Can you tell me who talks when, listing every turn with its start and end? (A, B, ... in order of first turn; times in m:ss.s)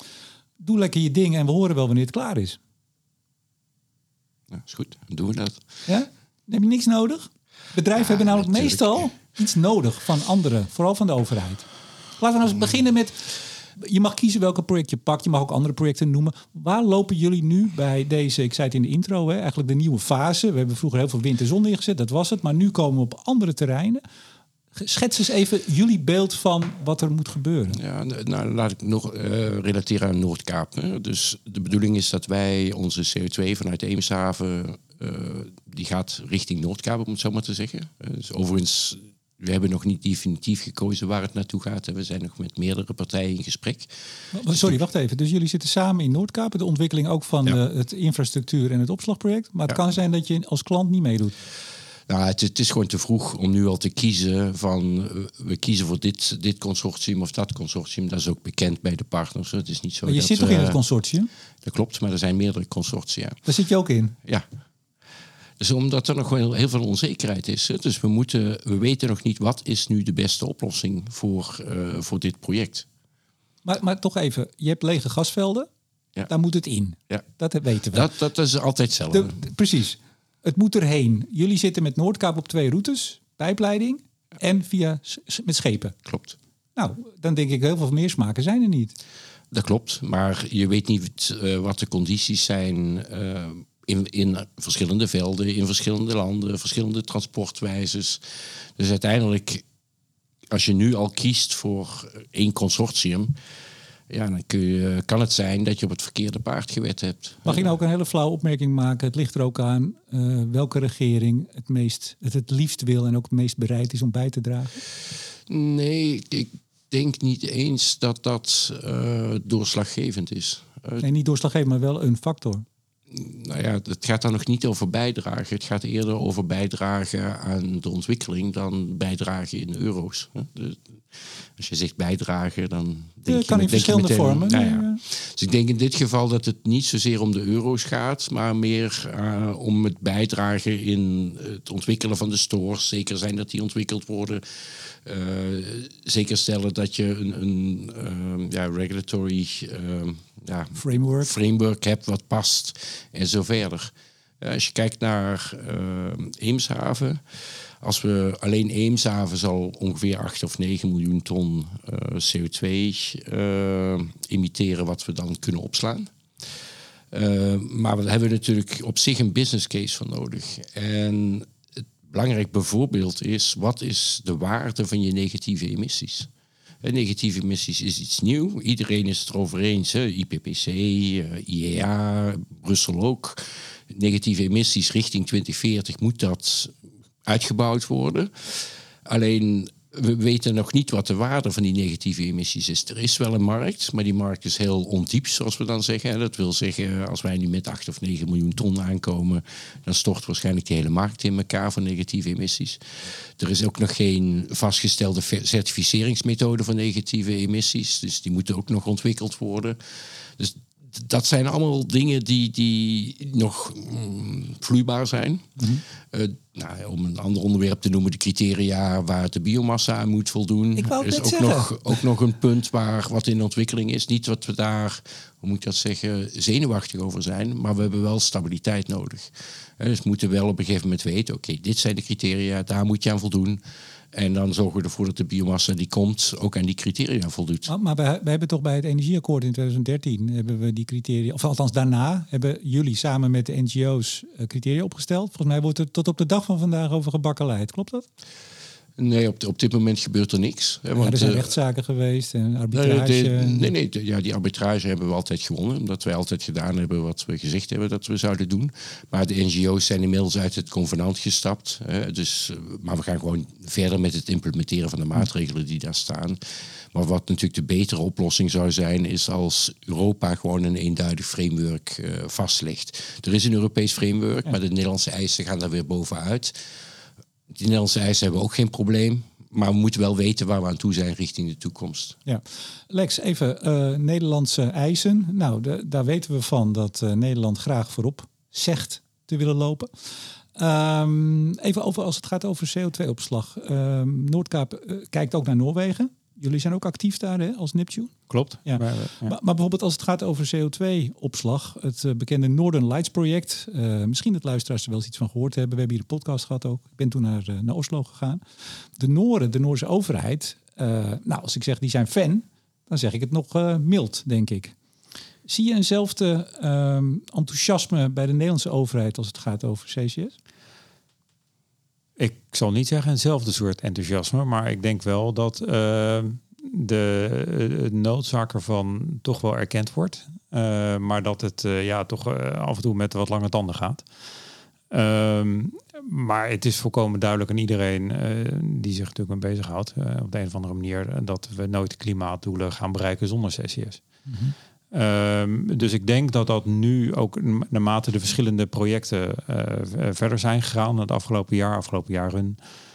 0:00.6-0:02.6 A
0:04.5-0:05.6 B
0:05.9-0:11.7 A
0:08.0-0:09.1 B
0:12.2-0:24.0 A
0:24.8-0:27.8 A
0:27.7-0:43.9 B
0:44.3-0:51.4 A
0:44.5-0:44.8 B
0:52.1-1:00.8 B
1:00.0-1:01.3 A
1:01.6-1:03.4 B
1:03.4-1:04.2 A
1:05.6-1:12.9 B
1:13.6-1:15.7 A
1:16.3-1:18.1 A
1:17.9-1:19.4 B
1:19.1-1:26.0 A
1:26.0-1:26.4 B
1:26.8-1:29.0 A
1:29.5-1:39.6 B
1:40.5-1:43.4 B
1:44.1-1:47.7 B
1:47.4-1:54.8 A
1:55.5-2:01.0 B
2:01.0-2:02.6 A
2:03.1-2:46.1 B
2:13.3-2:15.0 A
2:30.8-2:31.3 A
2:47.1-2:51.5 B
2:52.0-2:56.3 B
2:56.8-3:53.6 B
3:35.6-3:35.8 A
3:40.8-3:42.0 A
3:54.1-3:57.7 B
3:57.7-4:08.1 A
4:09.0-4:11.5 B
4:10.9-4:13.7 A
4:12.7-4:26.4 B
4:26.9-4:36.6 B
4:37.5-4:42.2 B
4:42.3-5:14.8 A
4:58.3-4:59.4 C
5:15.4-5:20.4 A
5:22.2-5:34.0 C
5:34.9-5:44.0 C
5:44.3-5:44.6 A
5:44.9-5:52.6 C